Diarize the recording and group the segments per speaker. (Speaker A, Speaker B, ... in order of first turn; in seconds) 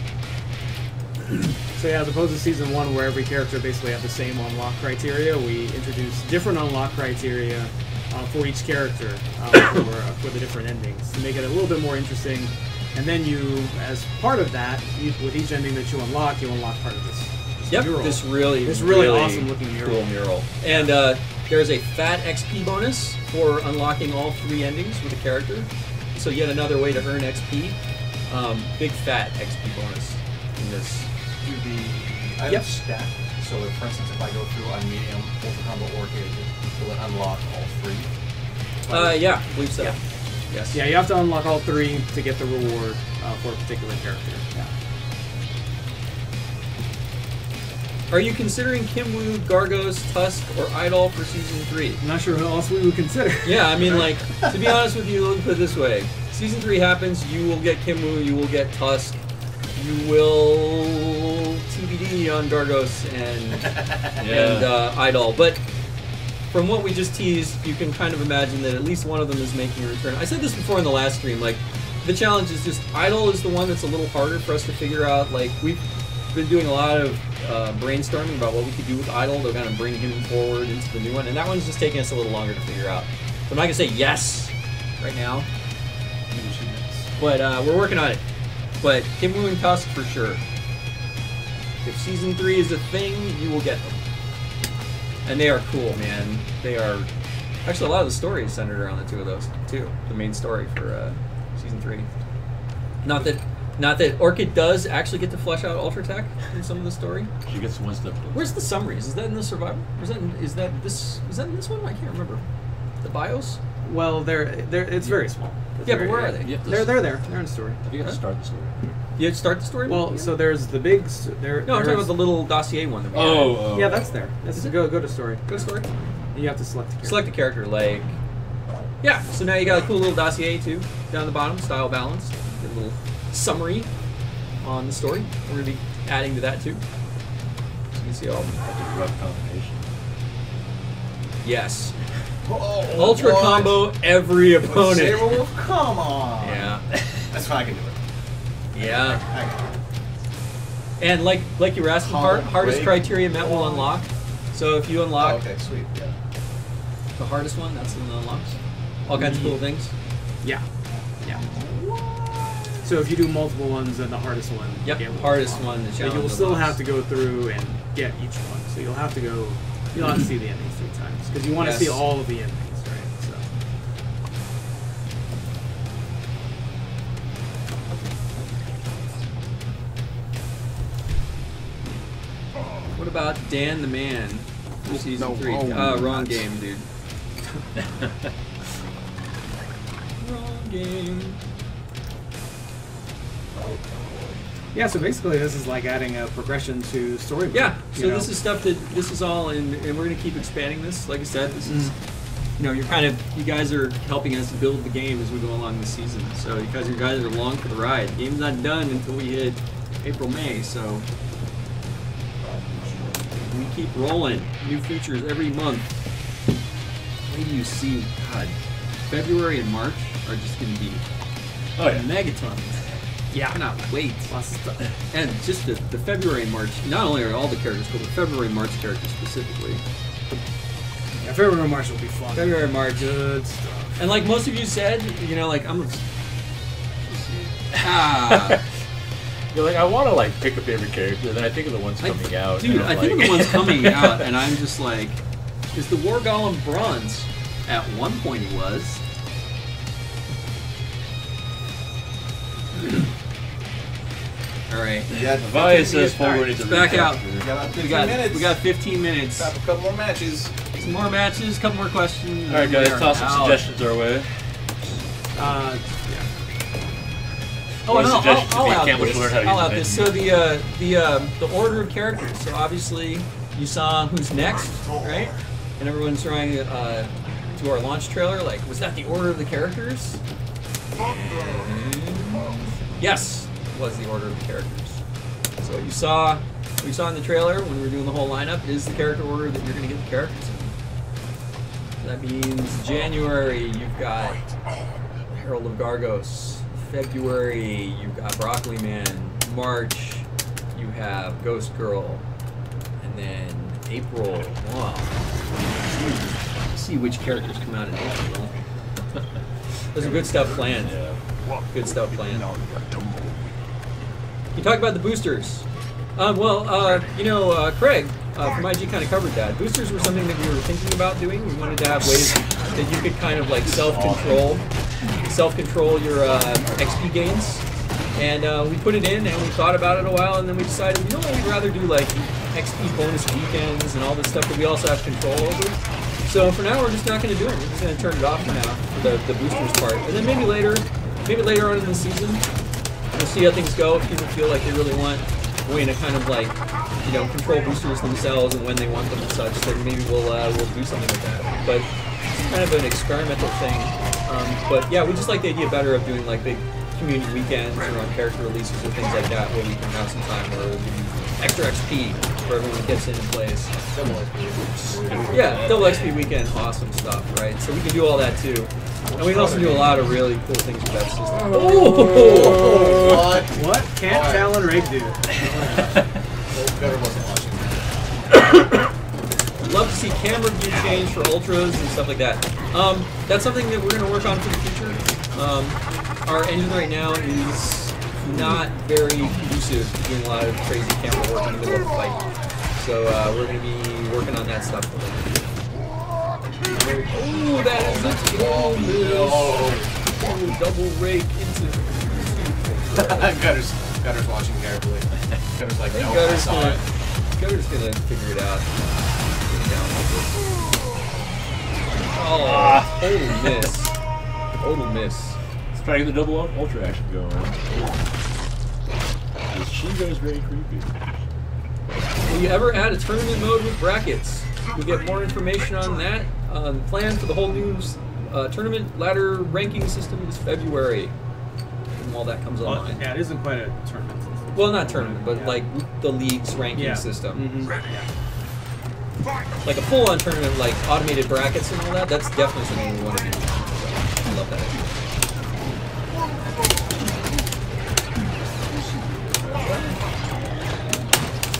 Speaker A: 1.7-20.1, 40.7-44.7, 52.0-54.0, 113.8-117.8, 119.8-122.2, 123.7-125.5, 126.3-127.3, 159.1-159.6, 162.8-173.5, 194.7-198.3, 223.3-223.6, 224.3-224.9, 231.2-234.0, 265.3-266.3, 373.5-376.0, 432.6-435.6, 436.7-438.1
Speaker B: 17.7-31.1, 38.9-40.0, 40.5-40.8, 48.1-52.0, 53.4-59.2, 59.8-65.6, 66.5-85.5, 87.2-88.2, 88.8-90.4, 91.8-94.0, 95.2-97.1, 97.6-102.1, 103.0-107.3, 108.3-112.4, 113.0-113.6, 115.8-116.6, 119.2-120.4, 121.6-123.7, 124.5-125.9, 127.0-128.1, 129.0-133.9, 134.6-136.8, 137.9-138.5, 141.4-141.9, 142.9-145.5, 146.4-146.8, 148.7-149.2, 151.0-155.4, 157.2-159.9, 161.6-162.5, 164.8-166.8, 171.6-172.1, 182.9-186.8, 190.2-191.4, 197.5-201.9, 202.6-211.1, 213.4-215.9, 217.3-218.6, 219.1-221.0, 221.8-222.8, 223.5-224.3, 225.1-229.8, 232.3-233.2, 234.0-236.0, 237.1-238.6, 242.0-245.2, 245.7-249.0, 254.7-255.1, 255.6-259.5, 260.7-263.6, 267.8-280.2, 281.0-285.0, 285.6-290.7, 292.0-294.4, 295.3-302.2, 303.0-305.1, 305.9-308.5, 309.9-310.9, 311.7-312.4, 314.5-315.6, 316.1-324.6, 325.2-327.6, 328.1-342.4, 343.1-363.7, 365.3-373.1, 379.6-395.5, 396.9-403.4, 405.9-406.8, 407.4-408.7, 409.4-410.4, 412.1-413.9, 414.6-415.4, 422.3-431.1, 431.9-433.0, 434.5-437.5, 439.6-444.9
Speaker C: 31.4-38.1, 38.9-39.2, 86.3-86.9, 142.4-143.9, 144.6-146.8, 147.3-148.0, 148.8-149.7, 152.0-153.1, 155.1-156.0, 184.8-186.5, 255.1-256.1, 257.4-258.6, 259.3-260.5, 312.4-313.5, 363.9-366.0, 369.0-370.1, 371.8-374.8, 376.5-378.0, 396.6-399.9, 402.9-406.8
Speaker D: 64.2-64.8, 86.3-86.8, 107.5-108.6, 115.0-115.3, 116.4-117.2, 117.8-118.8, 123.1-124.1, 138.3-139.8, 221.8-222.1, 237.7-238.6, 239.5-244.3, 255.3-257.5, 262.5-264.3, 267.9-270.2, 310.8-311.2, 323.7-324.6, 364.9-366.1, 371.5-372.8, 412.3-413.5, 415.7-417.6, 419.5-421.1, 449.0-449.9